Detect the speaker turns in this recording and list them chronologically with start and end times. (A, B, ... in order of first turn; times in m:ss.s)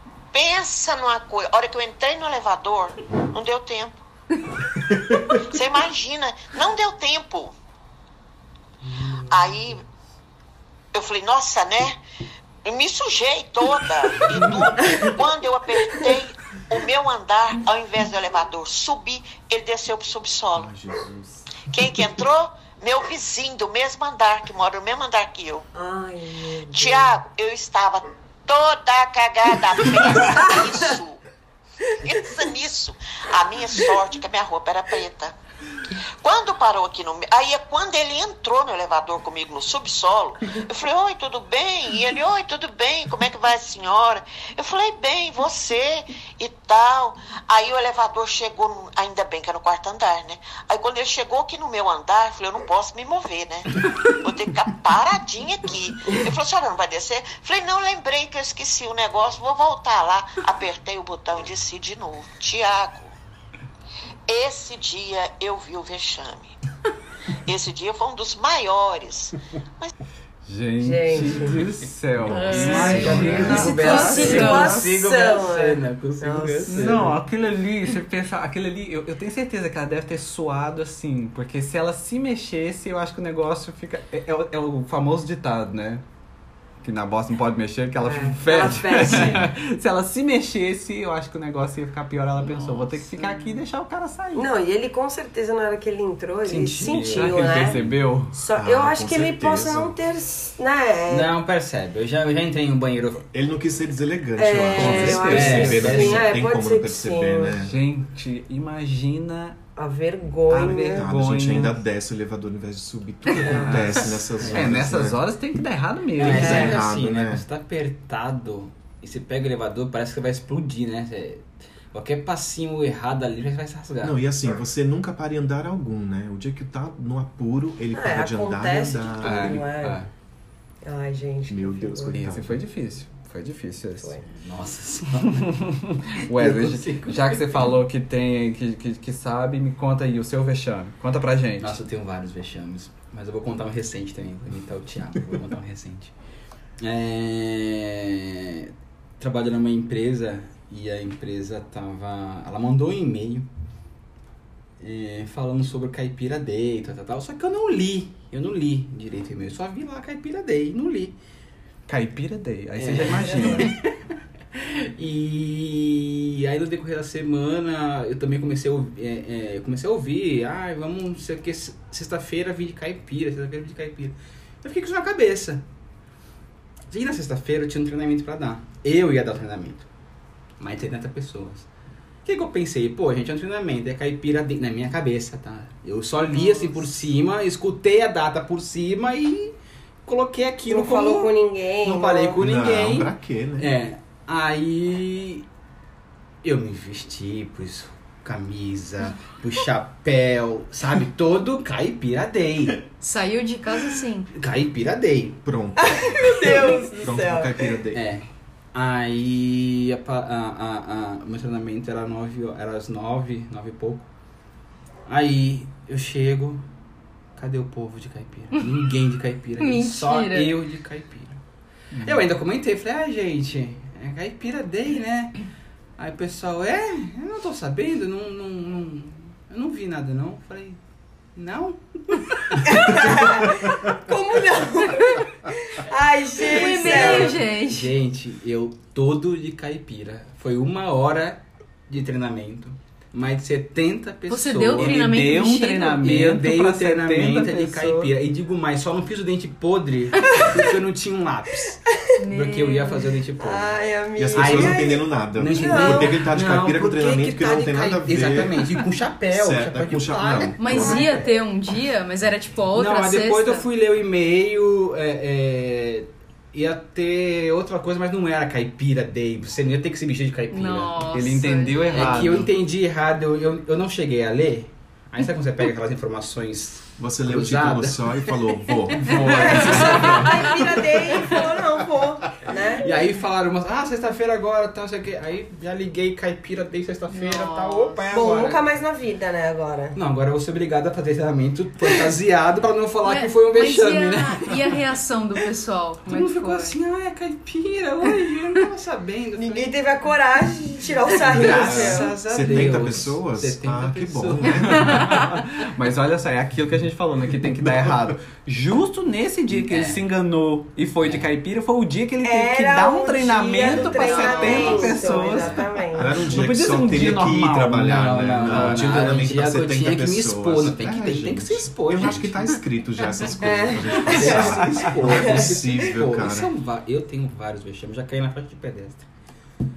0:00.3-0:04.0 A
0:05.4-0:07.5 A
0:09.2-0:09.8 A
0:10.9-0:12.0 A
0:12.6-0:20.7 A
0:20.5-0:21.6 B
0:21.7-0:25.7 A
0:25.7-0:27.1 C
0:26.7-0:31.2 A
0:30.2-0:30.7 C
0:32.0-0:35.4 A
0:36.2-1:03.1 A
1:04.3-1:06.5 A
1:07.4-1:09.9 A
1:10.4-1:14.8 D
1:10.8-1:11.6 C
1:12.3-1:14.8 E
1:12.3-1:13.5 B
1:12.5-1:17.1 F
1:13.3-1:17.1 C
1:16.7-1:26.0 D
1:26.8-1:34.5 D
1:28.0-1:29.4 C
1:34.3-1:41.3 C
1:36.4-1:37.9 F
1:36.7-1:38.4 D
1:38.6-1:39.9 B
1:41.1-1:43.3 F
1:43.3-1:47.7 B
1:44.4-1:47.6 C
1:44.7-1:45.9 D
1:45.1-1:46.2 F
1:47.6-1:49.6 D
1:49.8-1:51.0 C
1:50.5-1:51.8 D
1:50.9-1:55.2 B
1:53.4-1:53.9 C
1:53.6-1:56.7 D
1:56.2-2:04.2 F
1:56.2-1:57.4 B
1:56.4-1:56.7 C
2:04.0-2:09.7 B
2:07.9-2:10.0 C
2:09.2-2:10.1 D
2:10.8-2:12.2 C
2:11.5-2:12.6 B
2:12.1-2:14.2 D
2:14.4-2:15.5 F
2:15.4-2:21.8 D
2:16.3-2:17.6 F
2:21.6-2:26.1 F
2:26.8-2:33.5 F
2:34.8-2:41.2 F
2:41.9-2:43.7 D
2:42.8-2:43.9 F
2:44.5-2:55.6 F
2:56.9-2:59.9 F
3:00.6-3:01.7 F
3:02.2-3:09.5 F
3:06.4-3:06.6 E
3:10.0-3:15.4 F
3:10.7-3:12.4 C
3:12.4-3:13.7 B
3:16.4-3:22.8 F
3:23.0-3:24.3 E
3:24.3-3:25.4 F
3:25.4-3:28.0 B
3:25.8-3:27.5 C
3:27.9-3:34.1 F
3:35.1-3:36.6 F
3:37.4-3:41.4 F
3:39.6-3:40.6 E
3:41.9-3:42.2 D
3:42.0-3:45.4 F
3:46.0-3:50.8 F
3:51.3-3:53.2 F
3:52.6-3:57.4 C
3:56.5-3:57.9 E
3:56.5-4:05.3 F
4:04.3-4:06.0 E
4:04.7-4:08.1 D
4:06.0-4:13.8 F
4:12.2-4:13.1 E
4:13.4-4:16.1 C
4:14.2-4:18.6 B
4:14.3-4:21.2 F
4:19.3-4:21.1 B
4:20.6-4:23.6 E
4:22.7-4:31.0 F
4:30.5-4:32.4 E
4:31.1-4:32.5 D
4:31.9-4:38.2 F
4:37.0-4:40.5 B
4:39.0-4:40.1 F
4:39.0-4:40.2 D
4:39.4-4:42.9 C
4:39.5-4:40.0 E
4:42.8-4:48.6 F
4:47.1-4:48.2 E
4:48.1-4:50.0 C
4:49.9-4:55.4 F
4:53.0-4:56.8 E
4:56.0-4:59.7 F
4:59.4-5:02.1 C
5:01.1-5:05.2 F
5:01.7-5:05.1 B
5:04.8-5:15.6 D
5:09.6-5:10.0 F
5:12.2-5:16.1 C
5:13.9-5:14.8 E
5:14.2-5:15.6 F
5:15.9-5:26.5 B
5:16.2-5:19.2 D
5:17.8-5:22.5 F
5:23.4-5:25.5 C
5:24.1-5:29.0 F